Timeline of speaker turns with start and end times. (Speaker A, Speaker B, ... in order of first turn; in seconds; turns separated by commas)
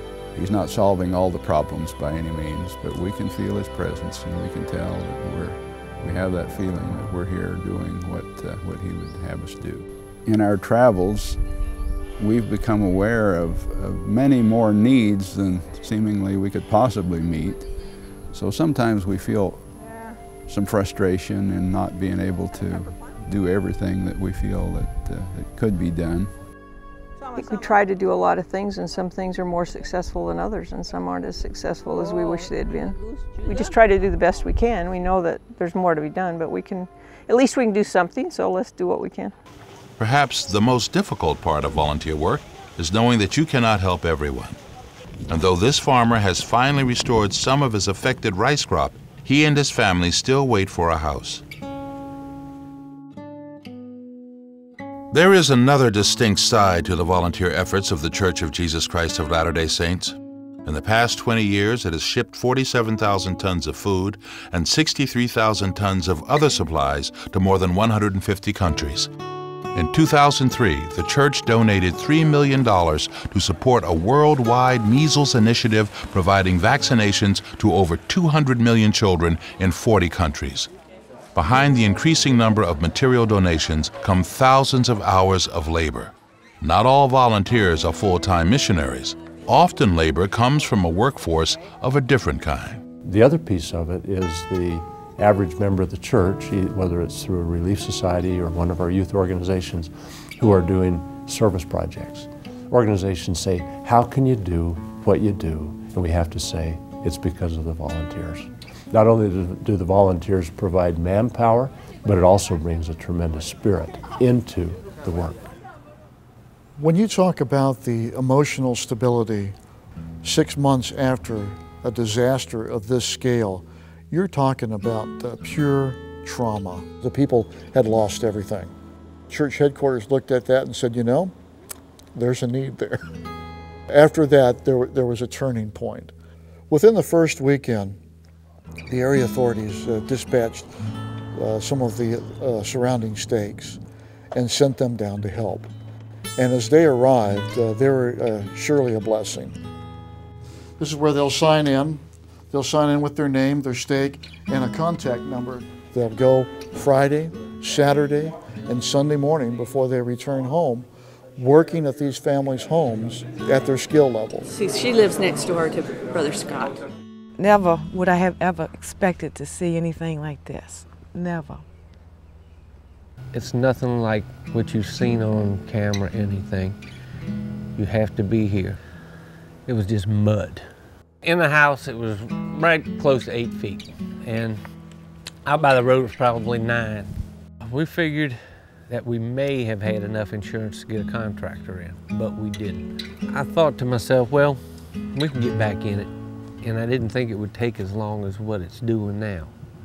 Speaker A: 0.3-11.4, Speaker A: 12.2-17.7, Speaker A: 18.3-19.6, Speaker A: 20.5-26.3, Speaker B: 27.3-39.3, Speaker C: 40.0-44.6, Speaker C: 45.3-51.4, Speaker C: 55.1-69.1, Speaker C: 69.7-80.7, Speaker C: 81.3-92.8, Speaker D: 93.0-115.5, Speaker E: 116.8-119.6, Speaker E: 120.2-128.7, Speaker E: 129.3-131.3, Speaker E: 132.1-133.0, Speaker E: 133.9-136.1, Speaker E: 136.7-138.0, Speaker E: 138.9-140.7, Speaker E: 141.3-143.8, Speaker E: 144.3-145.7, Speaker E: 146.4-149.6, Speaker E: 150.8-164.5, Speaker F: 164.5-166.8, Speaker G: 167.4-171.7, Speaker H: 173.3-176.8, Speaker H: 177.8-178.8, Speaker H: 179.7-180.7, Speaker H: 181.2-184.6, Speaker H: 185.4-199.6